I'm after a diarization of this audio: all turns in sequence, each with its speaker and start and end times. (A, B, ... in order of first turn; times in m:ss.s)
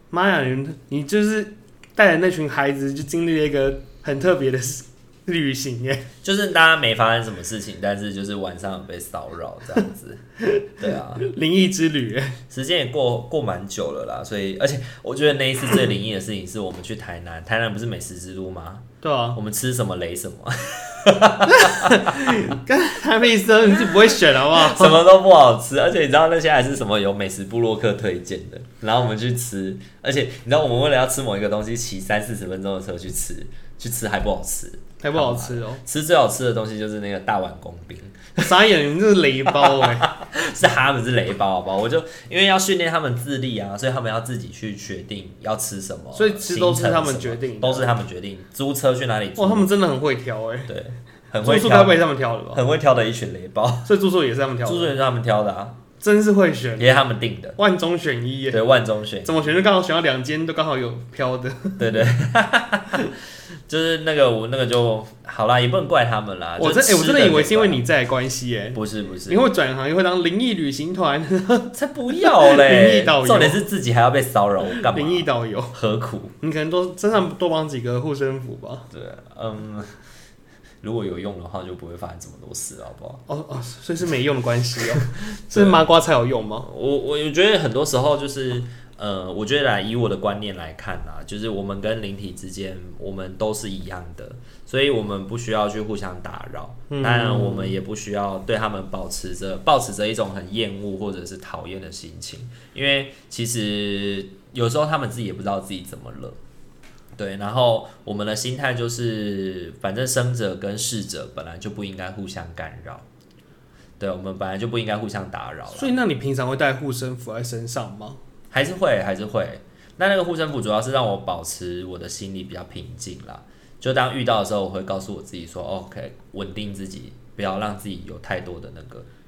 0:00.1-0:06.1 A
0:06.2-0:11.3 B
0:10.4-0:12.4 A
0:12.5-0:22.6 B
0:19.0-0:19.4 A
0:21.5-0:25.0 A
0:24.3-0:38.5 B
0:35.0-0:35.8 A
0:38.4-0:40.1 A
0:39.5-0:49.7 B
0:46.1-0:47.9 A
0:49.4-0:50.7 A
0:50.7-0:52.0 B
0:51.4-0:52.6 A
0:52.5-0:53.9 B
0:53.8-0:54.9 A
0:54.6-0:55.8 B
0:56.0-0:56.9 A
0:56.8-0:57.6 B
0:57.6-0:58.6 A
0:58.5-0:59.5 B
0:59.2-1:01.9 A
1:01.8-1:03.2 B
1:03.7-1:07.8 B
1:06.6-1:13.6 A
1:08.7-1:09.5 B
1:11.7-1:16.3 B
1:14.7-1:15.8 A
1:16.4-1:18.9 A
1:18.9-1:20.0 B
1:20.8-1:23.2 B
1:23.3-1:26.7 A
1:25.1-1:25.9 B
1:26.6-1:46.4 B
1:36.9-1:37.8 A
1:47.2-1:53.0 B
1:54.0-1:55.9 B
1:55.7-1:58.2 A
1:58.5-2:09.1 B